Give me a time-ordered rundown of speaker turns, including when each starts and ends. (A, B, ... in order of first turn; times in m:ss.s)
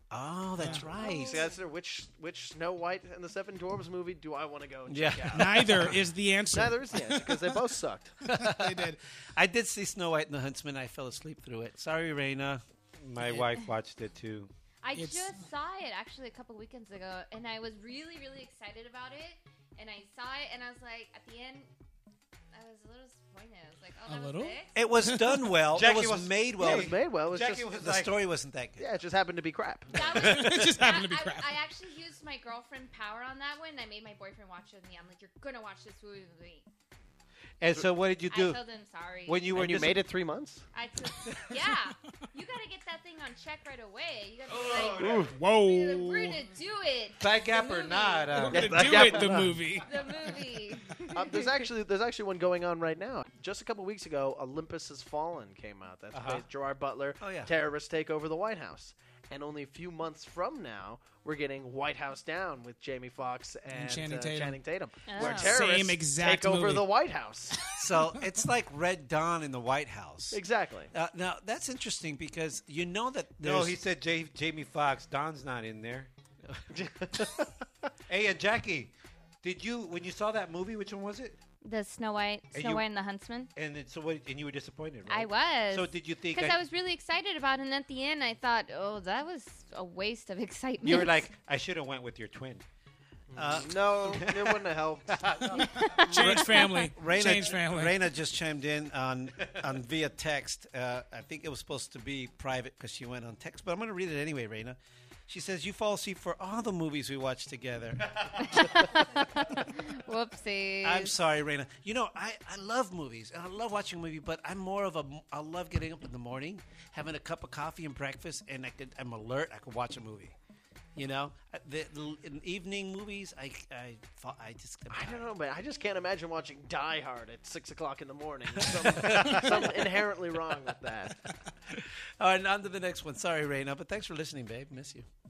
0:00.1-0:01.5 A
0:00.6-0:00.9 B
0:00.9-0:01.5 C
0:01.0-0:06.0 D
0:04.9-0:05.9 A
0:05.3-0:07.5 B
0:06.5-0:08.2 D
0:08.2-0:12.6 A
0:08.2-0:09.0 B
0:13.0-0:14.5 E
0:14.8-0:21.7 C
0:14.9-0:15.3 B
0:22.5-0:24.7 C
0:24.1-0:25.6 B
0:24.7-0:28.9 A
0:25.7-0:28.1 E
0:26.6-0:27.7 D
0:28.8-0:29.9 D
0:29.9-0:36.6 C
0:30.2-0:31.6 B
0:37.6-0:38.6 E
0:38.3-0:39.5 C
0:39.2-0:40.0 E
0:39.5-0:40.6 D
0:40.7-0:48.6 C
0:44.5-0:44.9 E
0:44.7-0:45.2 A
0:45.0-0:45.3 D
0:45.3-0:46.4 B
0:47.2-0:49.4 E
0:48.3-0:50.4 B
0:48.5-0:49.7 D
0:49.8-0:51.6 C
0:51.1-1:07.6 D
0:56.1-0:56.4 E
0:57.2-0:57.5 A
1:03.7-1:04.6 B
1:05.0-1:05.6 C
1:05.2-1:06.9 B
1:07.7-1:13.8 A
1:10.3-1:10.9 D
1:13.4-1:16.1 E
1:16.7-1:17.4 D
1:18.1-1:21.4 E
1:21.6-1:23.5 C
1:22.5-1:22.8 E
1:23.5-1:26.6 E
1:25.1-1:31.3 C
1:30.8-1:32.6 E
1:33.3-1:35.2 D
1:33.3-1:33.8 A
1:33.4-1:35.9 E
1:35.6-1:36.9 C
1:36.0-1:38.0 B
1:36.2-1:48.7 A
1:48.5-1:51.1 C
1:50.8-2:00.3 A
2:01.0-2:05.3 A
2:04.9-2:11.2 D
2:08.5-2:10.0 A
2:11.7-2:15.1 A